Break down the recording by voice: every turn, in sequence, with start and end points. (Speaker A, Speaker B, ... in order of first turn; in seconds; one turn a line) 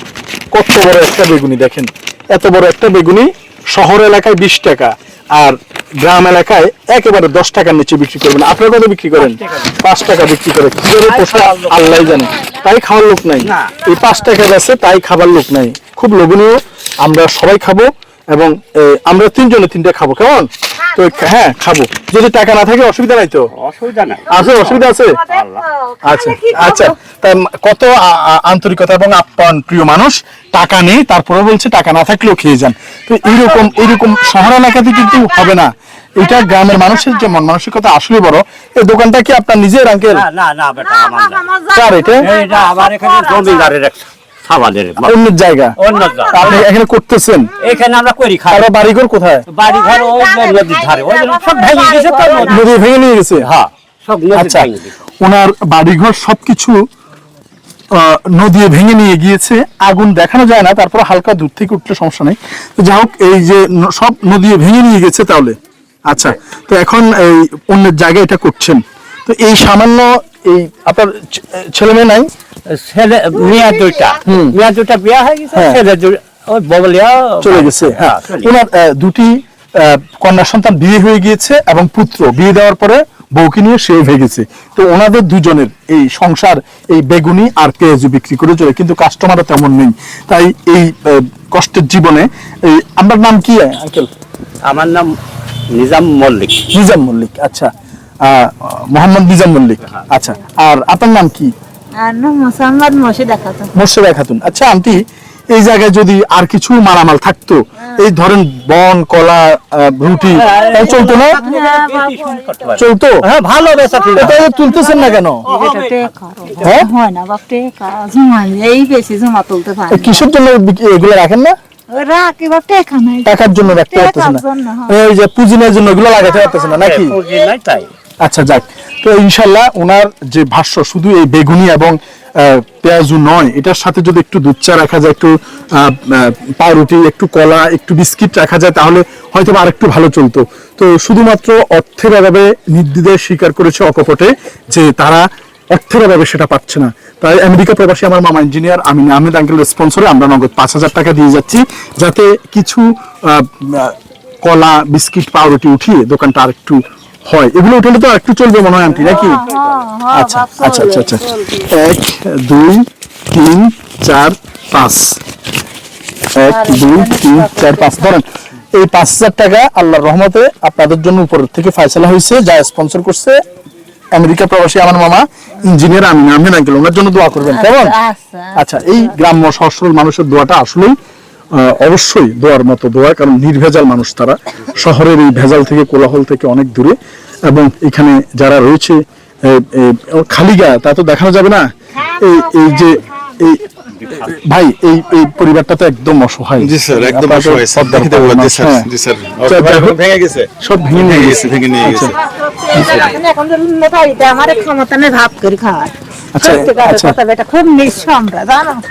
Speaker A: 0.5-23.5
Speaker B: 9.2-9.7
Speaker B: 11.1-12.2
Speaker B: 13.4-13.7
Speaker B: 23.5-25.6
Speaker A: 24.3-25.2
Speaker C: 25.3-27.0
Speaker A: 26.0-40.2
Speaker B: 40.1-41.5
Speaker C: 40.8-43.7
Speaker A: 41.8-42.3
Speaker B: 42.2-45.1
Speaker A: 45.0-45.8
Speaker B: 45.8-46.7
Speaker C: 46.0-46.6
Speaker A: 46.3-47.6
Speaker B: 47.6-48.7
Speaker A: 48.5-49.5
Speaker B: 49.5-52.7
Speaker C: 49.7-52.7
Speaker A: 52.4-53.5
Speaker B: 53.4-54.9
Speaker A: 54.3-54.7
Speaker A: 55.2-56.8
Speaker A: 57.9-65.6
Speaker A: 66.1-72.3
Speaker B: 72.7-78.5
Speaker A: 74.2-74.6
Speaker A: 75.5-75.8
Speaker A: 77.4-94.1
Speaker B: 94.6-95.1
Speaker B: 95.7-96.6
Speaker A: 96.7-97.7
Speaker A: 98.2-101.5
Speaker C: 102.0-103.7
Speaker A: 103.8-111.4
Speaker B: 110.3-114.5
Speaker C: 110.5-112.7
Speaker A: 112.8-113.1
Speaker C: 113.7-120.3
Speaker A: 114.2-115.4
Speaker B: 115.5-116.8
Speaker A: 116.6-116.9
Speaker A: 119.9-121.5
Speaker C: 121.9-125.0
Speaker A: 123.2-127.2
Speaker B: 126.8-127.9
Speaker A: 128.2-159.4
Speaker B: 159.0-159.6
Speaker C: 159.0-161.7
Speaker A: 160.1-165.2
Speaker A: 166.3-173.4
Speaker C: 166.5-168.2
Speaker A: 174.2-177.9
Speaker C: 177.4-179.1
Speaker A: 178.6-180.9
Speaker A: 181.5-187.0
Speaker A: 187.5-193.6
Speaker A: 194.2-198.9
Speaker D: 196.6-202.2
Speaker A: 199.4-200.0
Speaker A: 200.6-202.1
Speaker C: 202.2-208.8
Speaker A: 206.4-207.2